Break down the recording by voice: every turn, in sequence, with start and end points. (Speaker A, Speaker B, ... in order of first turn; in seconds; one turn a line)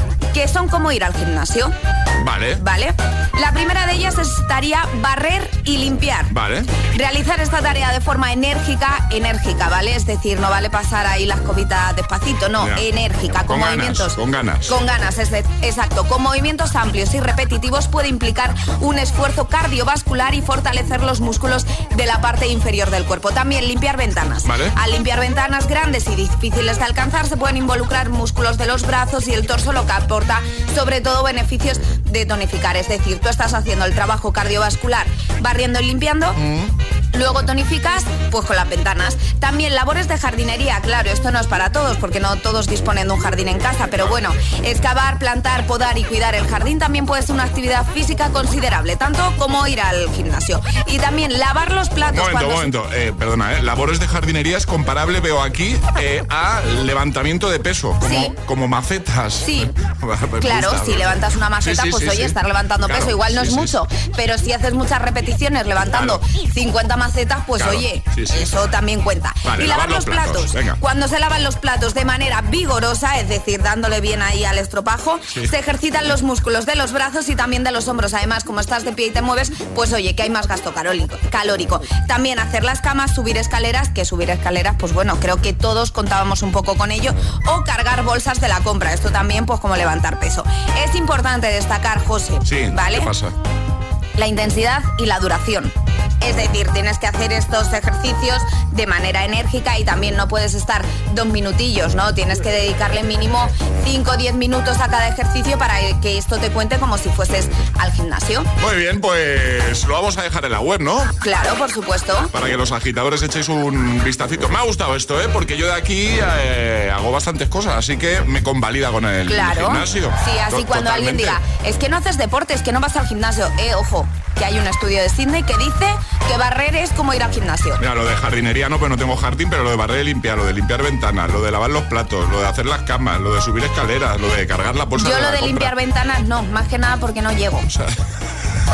Speaker A: 0.3-1.7
Speaker B: 2.2-2.6
Speaker A: 2.6-36.4
Speaker B: 6.3-6.8
Speaker B: 12.6-12.8
Speaker B: 13.5-14.7
Speaker B: 24.4-24.7
Speaker B: 36.4-36.7
Speaker A: 37.1-52.7
Speaker B: 52.1-63.8
Speaker A: 58.0-58.4
Speaker A: 59.4-59.7
Speaker A: 60.4-93.1
Speaker B: 65.9-66.2
Speaker B: 67.6-68.5
Speaker B: 69.4-70.8
Speaker B: 92.4-93.3
Speaker A: 94.2-108.5
Speaker B: 108.6-111.1
Speaker A: 111.2-112.3
Speaker B: 112.3-121.4
Speaker A: 119.2-127.8
Speaker B: 127.8-135.7
Speaker A: 134.9-137.7
Speaker B: 137.7-138.0